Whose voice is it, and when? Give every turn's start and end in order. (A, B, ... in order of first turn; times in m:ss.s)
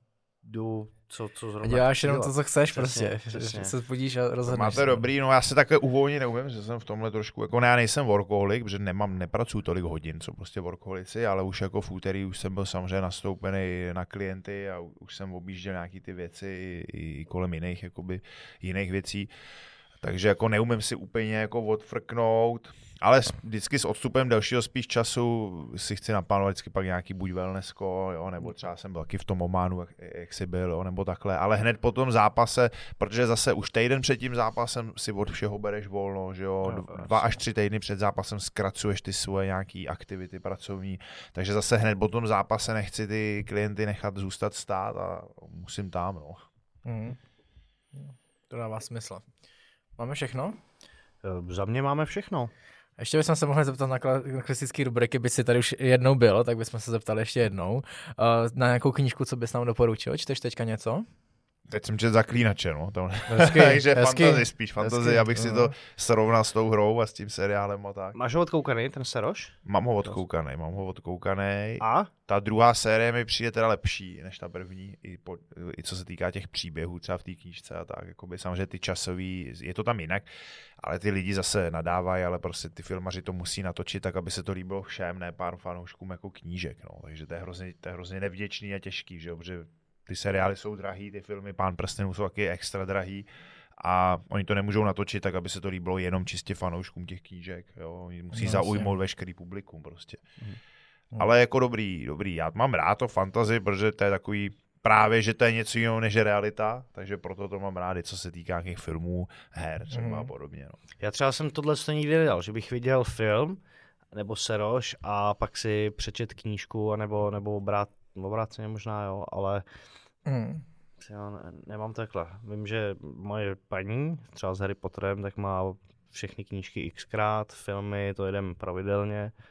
0:00.4-0:03.7 A
0:01.6-0:05.0 B
0:04.5-0:19.3 C
0:20.0-0:46.4 C
0:36.6-0:37.2 A
0:46.8-0:47.2 B
0:47.9-0:49.2 B
0:50.0-0:50.6 B
0:51.2-0:52.5 A
0:53.0-1:01.0 B
1:01.7-1:08.2 C
1:03.3-1:05.7 B
1:08.1-1:10.2 A
1:09.6-1:33.2 C
1:11.8-1:12.1 A
1:33.8-1:40.2 C
1:38.3-1:38.9 B
1:41.2-1:50.8 C
1:49.9-1:50.3 B
1:51.0-1:53.6 A
1:54.1-1:59.6 A
2:00.2-2:00.6 B
2:01.0-2:09.3 A